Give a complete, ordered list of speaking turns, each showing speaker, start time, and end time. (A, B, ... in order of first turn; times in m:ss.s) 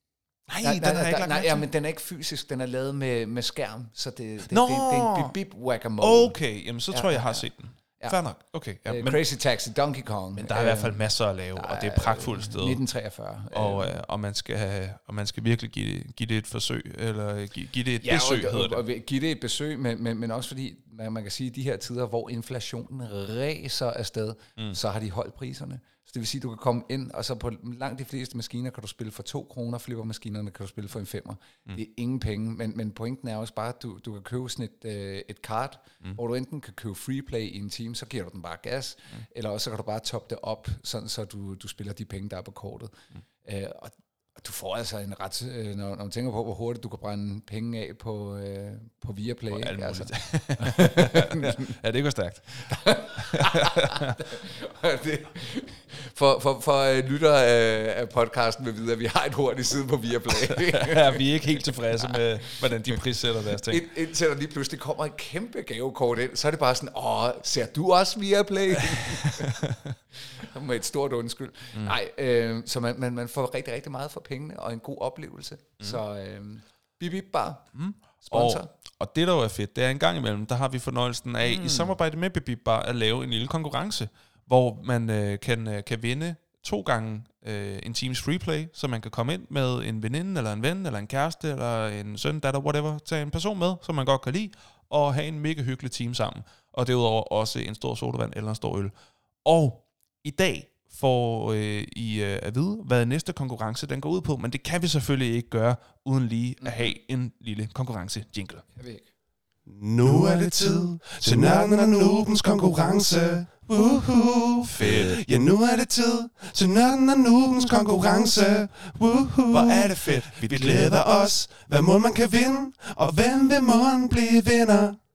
0:00.5-0:01.7 A
0:00.6-0:08.2 B
0:04.5-0:05.3 A
0:06.0-0:09.2 A
0:08.8-0:11.0 B
0:10.4-0:12.8 A
0:11.5-0:14.0 B
0:13.5-0:18.8 A
0:18.0-0:51.8 B
0:49.5-0:54.2 A
0:52.6-1:17.7 B
1:00.3-1:03.8 A
1:08.9-1:10.0 A
1:17.7-1:38.9 A
1:18.2-1:18.7 B
1:21.5-1:21.9 B
1:39.4-1:48.7 A
1:46.6-1:46.9 B
1:48.8-1:49.1 B
1:49.7-2:05.0 C
1:54.6-1:55.4 A
1:59.4-2:01.1 A